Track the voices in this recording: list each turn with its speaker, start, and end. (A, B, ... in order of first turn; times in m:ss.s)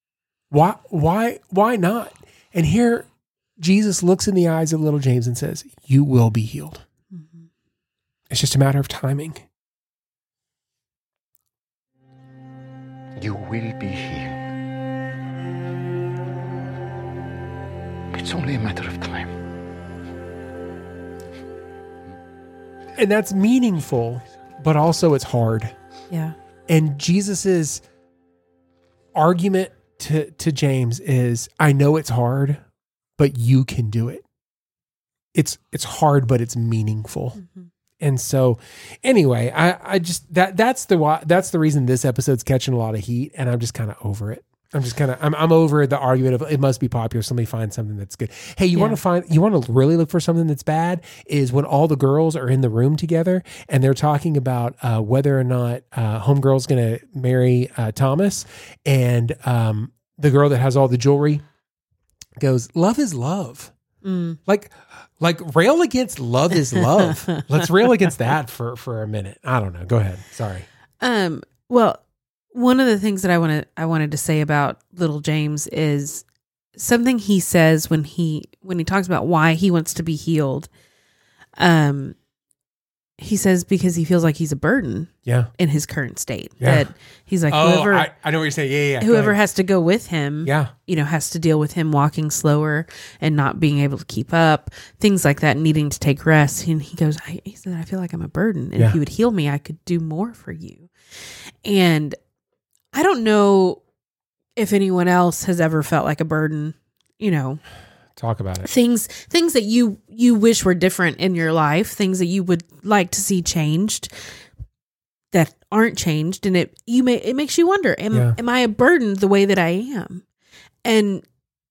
0:00.5-0:03.1 A
0:03.6-0:06.8 A
0:07.1-0:07.5 B
0:08.3-0:09.4 A
0:13.2-0:14.4 C
0:18.1-0:19.3 C
0:23.0-0:25.7 A
0:26.1-0:26.3 B
0:26.7-0:27.8 A
0:29.1-0:32.6 A
0:33.2-0:34.2 A
0:35.3-0:37.4 A
0:38.0-1:01.4 A
0:48.7-0:49.0 B
1:02.4-1:03.7 A
1:04.0-1:04.4 B
1:04.4-1:10.7 A
1:06.7-1:07.6 B
1:11.0-1:20.7 B
1:21.6-1:22.2 B
1:23.2-1:28.1 B
1:26.6-1:26.9 A
1:27.5-1:29.4 A
1:29.0-1:40.9 B
1:30.4-1:30.7 A
1:41.6-1:42.2 B
1:42.9-1:43.8 B
1:44.6-1:47.6 B
1:48.2-1:48.7 A
1:48.6-1:54.1 B
1:55.3-2:00.2 B
2:00.8-2:01.2 B